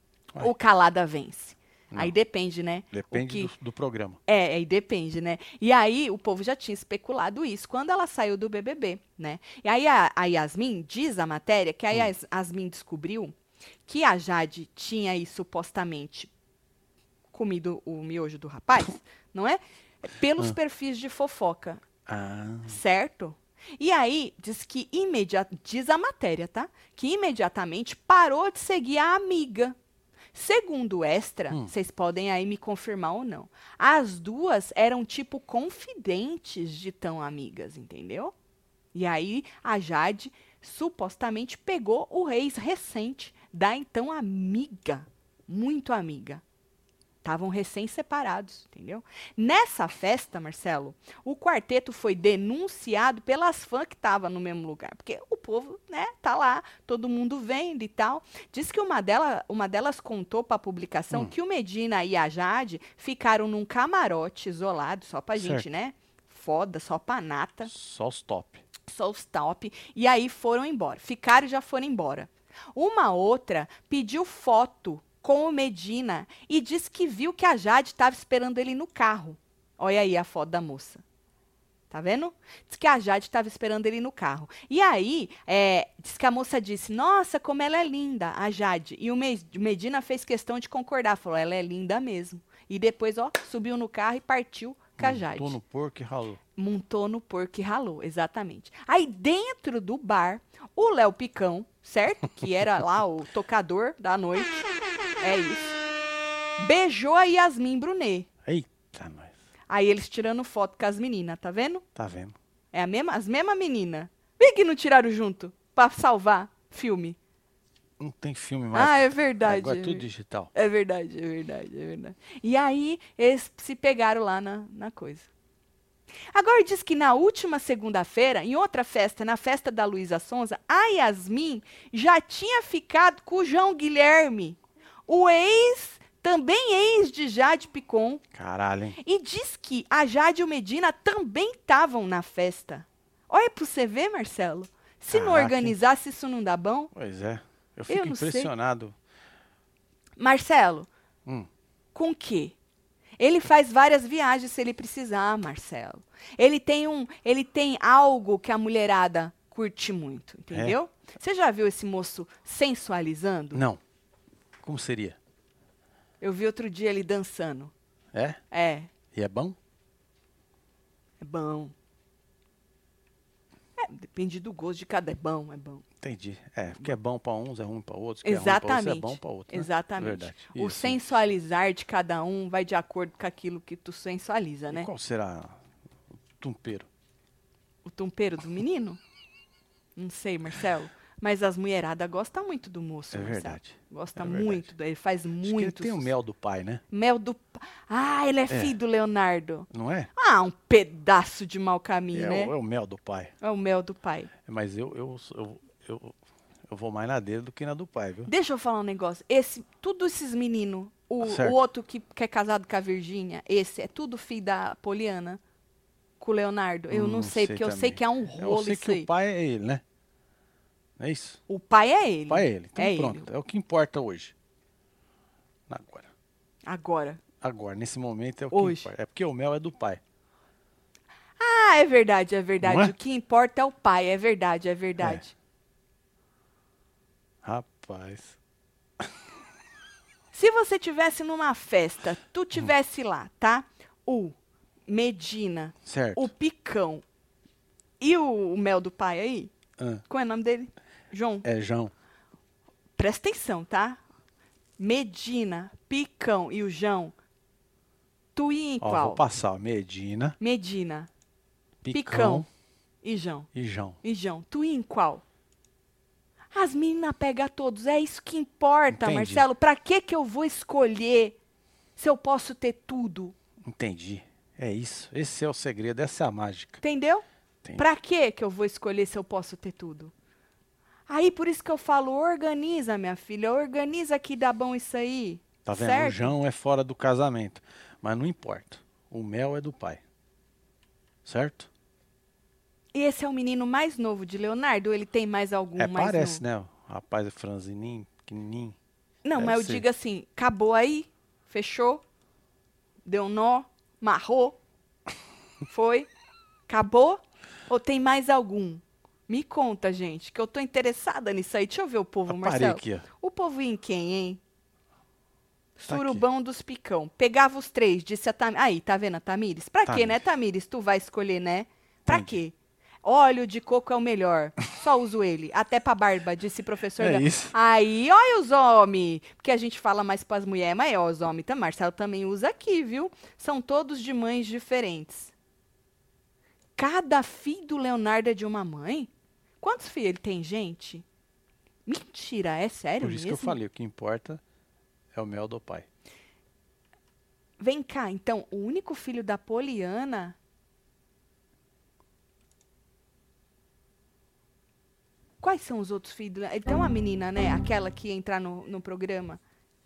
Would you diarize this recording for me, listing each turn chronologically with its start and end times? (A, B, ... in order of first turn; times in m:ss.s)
0:00.4-0:03.5 A
0:02.9-0:04.2 B
0:04.3-0:13.3 A
0:13.9-0:16.3 A
0:17.3-0:21.8 A
0:22.1-0:22.8 B
0:22.7-0:29.8 A
0:30.3-0:38.3 A
0:38.9-0:46.4 A
0:47.2-1:07.7 A
1:05.4-1:05.6 B
1:07.7-1:08.6 B
1:08.9-1:21.0 A
1:21.9-1:35.6 A
1:35.0-1:36.4 B
1:36.6-1:44.6 A
1:45.2-1:45.8 A
1:46.6-1:48.3 A
1:48.4-1:49.3 B
1:49.7-1:51.8 A
1:52.0-1:52.4 B
1:52.7-1:57.2 A
1:58.0-2:00.5 B
1:58.7-2:05.3 A
2:06.3-2:18.2 A
2:18.3-2:19.0 B
2:19.0-2:26.9 A
2:25.1-2:25.8 B
2:26.9-2:28.9 B
2:27.9-2:28.5 A
2:30.2-2:30.9 A
2:32.0-2:32.6 A
2:33.2-2:43.6 A
2:43.5-2:43.8 B
2:44.6-2:45.2 B
2:46.2-2:47.7 A
2:48.1-2:48.4 B
2:48.5-2:48.9 A
2:49.1-2:49.6 B
2:51.2-2:51.7 A
2:53.8-2:55.8 A
2:56.0-3:01.2 B
2:58.2-3:04.9 A
3:04.7-3:05.6 B
3:06.4-3:06.9 B
3:07.9-3:09.0 A
3:10.0-3:16.1 A
3:13.1-3:14.7 B
3:15.4-3:16.8 B
3:16.9-3:22.5 A
3:18.5-3:18.8 B
3:19.7-3:20.1 B
3:22.1-3:23.3 B
3:23.4-3:24.3 A
3:24.4-3:26.2 B
3:26.7-3:28.3 B
3:28.3-3:35.4 A
3:31.2-3:31.6 B
3:36.2-3:39.1 A
3:36.9-3:39.8 B
3:41.0-3:41.4 B
3:41.5-3:43.3 A
3:42.3-3:44.3 B
3:45.7-3:46.1 B
3:46.7-3:47.2 A
3:47.4-3:50.0 B
3:48.5-3:48.9 A
3:51.4-3:55.3 A
3:52.6-3:52.9 B
3:57.4-3:58.4 B
4:00.3-4:04.4 A
4:04.9-4:07.0 A
4:05.9-4:06.3 B
4:08.0-4:09.5 A
4:10.1-4:11.4 A
4:11.4-4:11.9 B
4:13.0-4:14.0 A
4:14.8-4:17.1 A
4:18.4-4:19.2 A
4:18.8-4:20.4 B
4:20.4-4:21.1 A
4:21.8-4:22.5 B
4:21.9-4:22.5 A
4:23.0-4:23.5 A
4:23.5-4:24.0 B
4:24.0-4:25.2 A
4:26.5-4:31.4 A
4:28.9-4:29.5 B
4:32.0-4:33.4 A
4:33.6-4:36.8 B
4:36.8-4:37.2 A
4:37.8-4:40.1 A
4:41.1-4:46.3 A
4:45.6-4:50.0 B
4:51.2-4:51.7 B
4:52.9-4:56.4 A
4:55.8-4:58.8 B
4:59.2-5:02.0 A
4:59.4-4:59.8 B
5:03.1-5:04.6 A
5:05.7-5:06.1 A
5:06.7-5:14.4 A
5:12.3-5:13.1 B
5:15.8-5:35.3 A
5:15.9-5:16.2 B
5:19.9-5:20.2 B
5:22.1-5:22.4 B
5:27.0-5:27.5 B
5:36.8-5:39.1 A
5:39.6-5:41.1 A
5:41.9-5:43.6 A
5:43.0-5:44.4 B
5:45.1-5:45.9 B
5:47.6-5:50.4 A
5:55.4-5:59.4 A